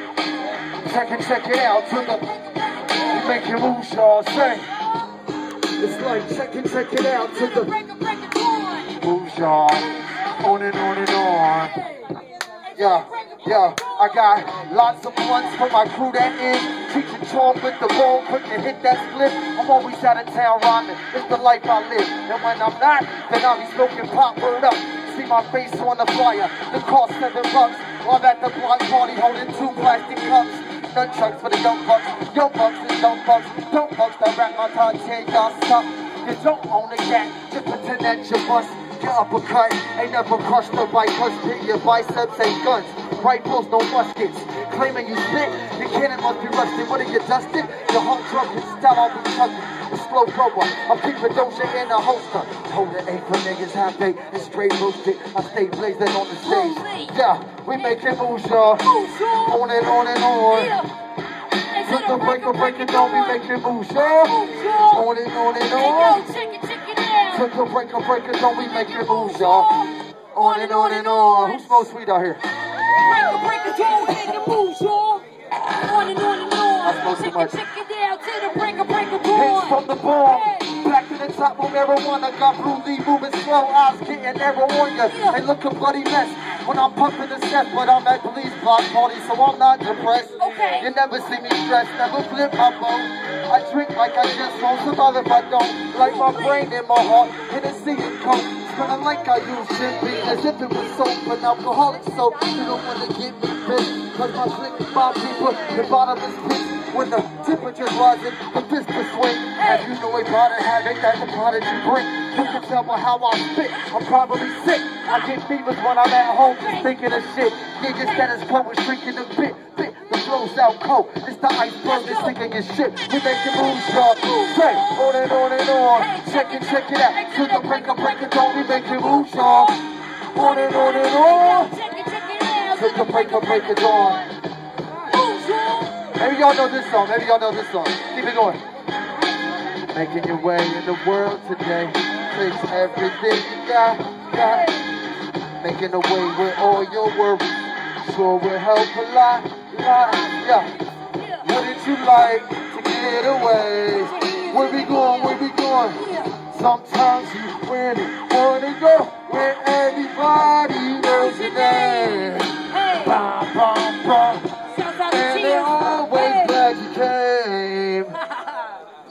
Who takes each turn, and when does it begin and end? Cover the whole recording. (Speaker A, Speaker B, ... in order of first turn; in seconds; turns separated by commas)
Speaker A: 0.8-2.3, Speaker A: 3.0-4.7, Speaker A: 5.8-7.7, Speaker B: 7.4-8.9, Speaker A: 9.0-11.7, Speaker A: 12.7-58.9, Speaker B: 56.4-57.1, Speaker B: 58.8-60.9, Speaker A: 59.5-60.7, Speaker B: 61.7-63.4, Speaker A: 61.8-66.2, Speaker B: 64.2-65.0, Speaker B: 65.7-67.4, Speaker A: 67.3-69.7, Speaker B: 69.0-71.8, Speaker A: 70.3-72.4, Speaker B: 72.9-80.6, Speaker A: 76.8-77.5, Speaker A: 79.3-129.7, Speaker B: 85.1-85.4, Speaker B: 90.4-90.8, Speaker B: 96.0-96.7, Speaker B: 109.6-109.9, Speaker B: 116.4-116.9, Speaker B: 121.8-122.3, Speaker B: 124.2-125.0, Speaker B: 125.9-129.8, Speaker A: 130.3-131.7, Speaker B: 130.3-134.3, Speaker A: 132.7-134.2, Speaker B: 135.1-136.1, Speaker A: 136.2-138.6, Speaker B: 139.2-139.8, Speaker A: 139.9-144.7, Speaker A: 145.6-150.7, Speaker A: 151.4-164.5, Speaker B: 154.0-155.3, Speaker B: 156.0-156.3, Speaker B: 161.0-163.2, Speaker B: 164.7-166.6, Speaker A: 165.1-168.2